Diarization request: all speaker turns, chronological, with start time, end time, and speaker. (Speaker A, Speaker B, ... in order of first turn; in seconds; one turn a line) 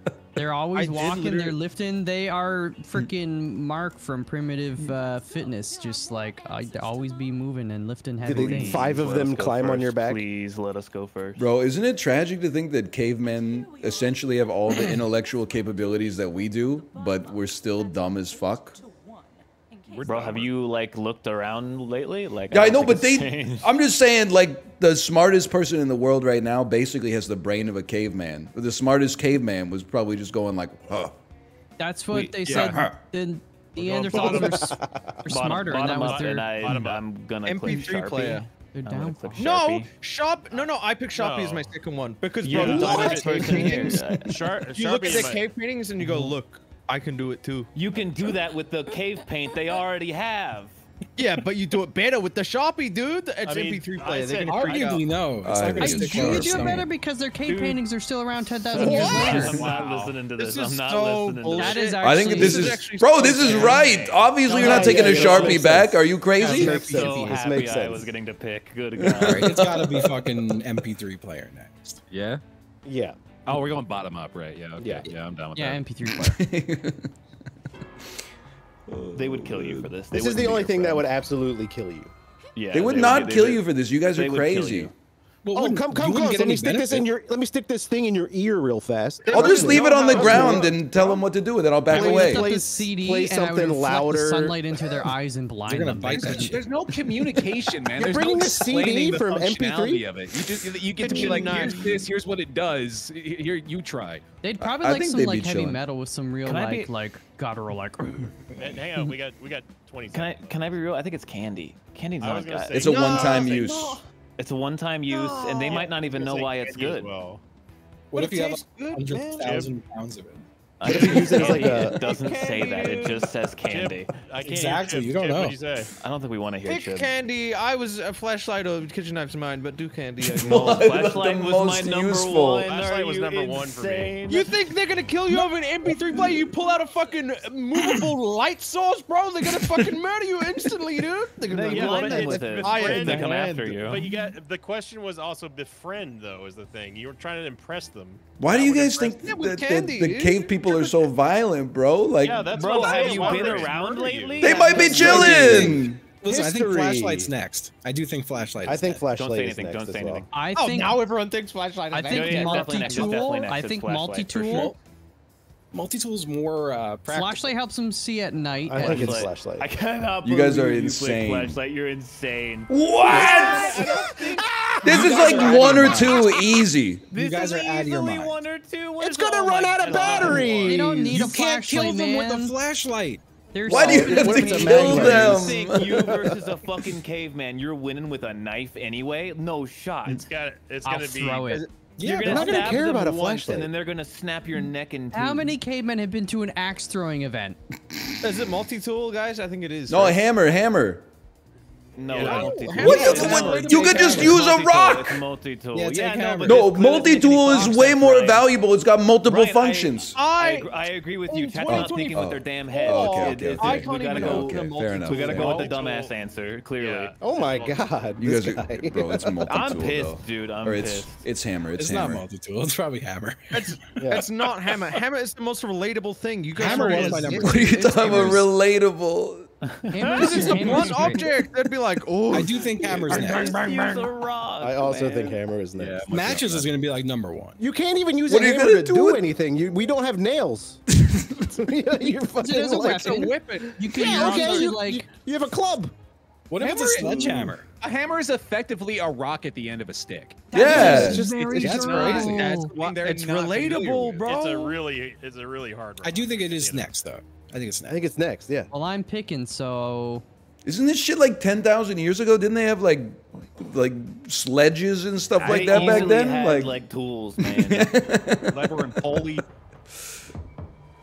Speaker A: 0.4-8.9
Speaker B: 0.7-1.6
Speaker C: 4.9-8.3
Speaker D: 8.2-10.2
Speaker E: 8.4-11.4
Speaker F: 11.4-18.8
Speaker C: 13.0-20.6
Speaker G: 19.9-20.5
Speaker E: 20.1-23.7
Speaker F: 22.5-31.2
Speaker A: 31.8-36.7
Speaker G: 32.1-32.9
Speaker F: 32.5-33.0
Speaker H: 33.8-34.7
Speaker E: 34.1-34.5
Speaker D: 34.6-35.1
Speaker E: 35.3-39.9
Speaker H: 35.7-37.0
Speaker B: 37.5-38.5
Speaker A: 38.6-39.5
Speaker B: 39.4-47.7
Speaker H: 40.5-41.8
Speaker E: 42.4-44.3
Speaker H: 42.4-45.5
Speaker D: 42.9-43.2
Speaker E: 47.7-50.8
Speaker B: 51.2-55.1
Speaker H: 53.4-55.2
Speaker I: 54.5-56.9
Speaker F: 55.4-56.9
Speaker A: 55.8-59.6
Speaker E: 57.5-57.8
Speaker B: 58.7-59.7
Speaker E: 58.7-61.9
Speaker H: 58.8-60.2
Speaker B: 60.4-64.0
Speaker A: 61.6-62.8
Speaker F: 62.0-66.9
Speaker H: 63.5-64.3
Speaker A: 64.5-65.6
Speaker D: 64.5-68.1
Speaker B: 64.5-65.6
Speaker E: 66.4-69.7
Speaker A: 66.5-66.8
Speaker F: 69.0-70.6
Speaker I: 69.2-72.0
Speaker G: 72.1-72.4
Speaker D: 72.8-73.2
Speaker G: 73.5-75.8
Speaker D: 74.8-75.1
Speaker A: 75.5-76.4
Speaker F: 76.1-77.2
Speaker F: 78.9-79.9
Speaker E: 79.2-81.1
Speaker D: 80.1-82.1
Speaker C: 82.4-83.2
Speaker E: 82.6-84.9
Speaker F: 82.7-84.9
Speaker I: 85.4-87.1
Speaker D: 85.5-90.6
Speaker B: 89.2-90.9
Speaker F: 89.3-92.5
Speaker I: 90.3-90.7
Speaker D: 91.9-94.9
Speaker A: 91.9-96.5
Speaker I: 95.7-96.7
Speaker G: 96.1-104.2
Speaker D: 98.0-100.1
Speaker B: 101.0-102.1
Speaker A: 104.4-108.5
Speaker F: 104.6-105.8
Speaker E: 106.5-106.9
Speaker H: 108.6-110.6
Speaker E: 110.1-112.9
Speaker H: 112.2-113.8
Speaker F: 112.7-114.0
Speaker B: 112.8-114.0
Speaker E: 114.4-117.1
Speaker B: 115.1-115.8
Speaker H: 115.7-117.4
Speaker I: 118.1-120.5
Speaker B: 118.1-119.6
Speaker H: 119.4-119.7
Speaker E: 120.8-124.1
Speaker D: 120.8-122.0
Speaker H: 120.9-121.9
Speaker B: 121.2-123.3
Speaker H: 123.6-125.9
Speaker I: 124.4-125.6
Speaker E: 126.0-127.1
Speaker B: 126.7-130.9
Speaker F: 130.3-132.7
Speaker E: 130.4-134.5
Speaker H: 132.6-134.2
Speaker B: 134.3-144.3
Speaker C: 136.5-137.6
Speaker E: 141.5-144.0
Speaker H: 141.7-149.2
Speaker F: 148.4-152.5
Speaker B: 149.1-151.0
Speaker H: 152.2-154.8
Speaker E: 152.5-155.7
Speaker B: 152.6-153.8
Speaker F: 154.4-156.1
Speaker B: 154.6-155.2
Speaker D: 154.9-157.3
Speaker I: 155.0-159.0
Speaker D: 158.7-160.3
Speaker E: 159.1-160.3
Speaker A: 160.3-161.1
Speaker B: 160.5-163.2
Speaker A: 161.9-164.8
Speaker E: 162.1-164.7
Speaker I: 164.5-164.8
Speaker I: 165.7-167.5
Speaker A: 167.1-169.3
Speaker D: 168.7-169.7
Speaker E: 168.8-176.2
Speaker F: 170.2-171.6
Speaker F: 172.7-173.9
Speaker I: 173.1-173.5
Speaker D: 173.2-175.2
Speaker F: 174.8-177.1
Speaker I: 174.9-176.1
Speaker B: 175.2-175.7
Speaker I: 177.1-178.3
Speaker E: 177.1-180.7
Speaker I: 179.0-183.2
Speaker D: 179.5-180.9
Speaker H: 179.8-180.8
Speaker A: 180.7-182.6
Speaker A: 183.5-185.6
Speaker F: 183.7-186.1
Speaker D: 183.7-186.4
Speaker E: 184.9-190.3
Speaker H: 190.1-191.5
Speaker A: 190.8-191.7
Speaker I: 192.0-192.9
Speaker E: 192.0-195.5
Speaker D: 192.2-193.7
Speaker A: 195.1-197.6
Speaker B: 198.2-200.2
Speaker F: 199.9-201.1
Speaker E: 201.9-208.5
Speaker H: 202.1-203.3
Speaker B: 202.2-204.3
Speaker I: 202.2-204.4
Speaker F: 202.8-205.2
Speaker I: 205.7-206.8
Speaker F: 206.4-210.2
Speaker B: 207.5-207.8
Speaker E: 209.2-217.1
Speaker B: 210.2-210.7
Speaker B: 211.3-215.7
Speaker F: 211.7-215.7
Speaker H: 215.2-216.2
Speaker H: 216.8-218.2
Speaker D: 217.2-219.6
Speaker F: 218.2-222.2
Speaker E: 219.5-221.2
Speaker I: 221.8-224.0
Speaker B: 223.5-228.5
Speaker D: 224.0-224.3
Speaker I: 226.5-228.5
Speaker A: 226.7-227.2
Speaker F: 227.3-229.5
Speaker A: 229.9-231.3
Speaker I: 230.2-231.2
Speaker B: 230.2-234.1
Speaker I: 232.3-233.6
Speaker E: 233.1-235.4
Speaker D: 234.6-236.1
Speaker G: 235.8-236.8
Speaker I: 236.1-237.6
Speaker D: 237.6-240.8
Speaker F: 238.3-239.3
Speaker F: 241.0-241.4
Speaker D: 241.4-245.9
Speaker A: 242.4-245.1
Speaker B: 242.8-244.7
Speaker G: 244.2-244.5
Speaker I: 246.5-247.7
Speaker G: 246.6-254.4
Speaker A: 250.5-252.7
Speaker F: 250.5-251.3
Speaker D: 250.6-251.7
Speaker I: 251.6-252.4
Speaker B: 252.3-254.8
Speaker H: 254.2-257.0
Speaker I: 256.0-258.0
Speaker D: 257.9-258.7
Speaker A: 258.7-260.2
Speaker F: 260.6-266.8
Speaker E: 265.4-268.0
Speaker B: 265.7-266.1
Speaker F: 267.4-269.4
Speaker G: 268.4-269.4